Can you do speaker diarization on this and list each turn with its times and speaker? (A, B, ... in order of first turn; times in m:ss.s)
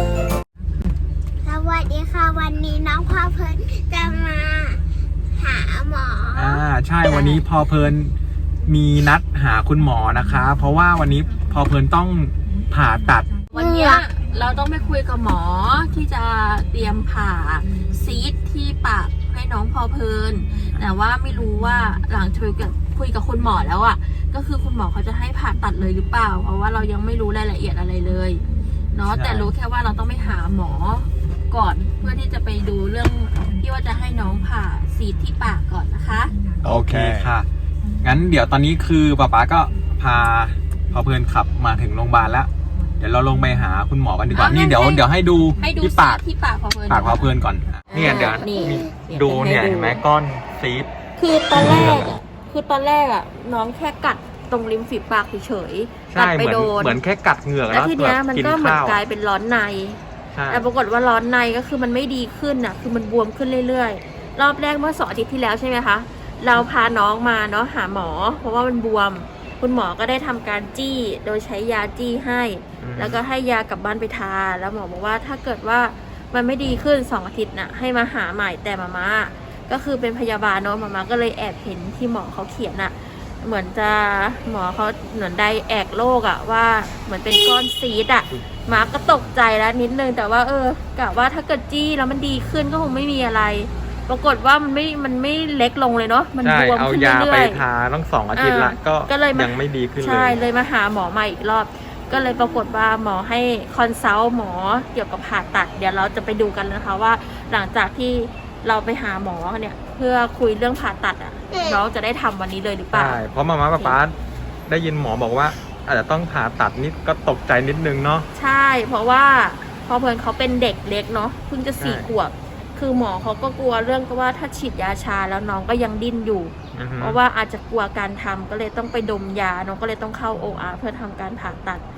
0:01.4-0:07.4 A
0:06.3-0:13.3 B
0:13.5-0:36.3 C
0:13.5-0:14.0 A
0:29.1-0:29.5 B
0:36.6-0:37.4 B
0:38.0-0:46.2 B
0:44.3-0:47.4 C
0:46.9-0:50.9 B
0:47.9-0:50.0 C
0:48.6-0:48.9 A
0:51.2-0:57.0 C
0:51.5-0:52.2 B
0:56.1-0:59.0 B
0:57.7-1:37.6 C
1:00.3-1:00.6 B
1:12.8-1:13.2 B
1:28.3-1:29.3 B
1:36.4-1:40.4 B
1:38.3-1:53.2 C
1:42.1-1:42.4 A
1:51.5-1:51.8 A
1:52.9-1:54.1 B
1:54.6-1:58.3 B
1:58.3-2:11.8 C
2:01.8-2:02.1 B
2:06.7-2:07.2 B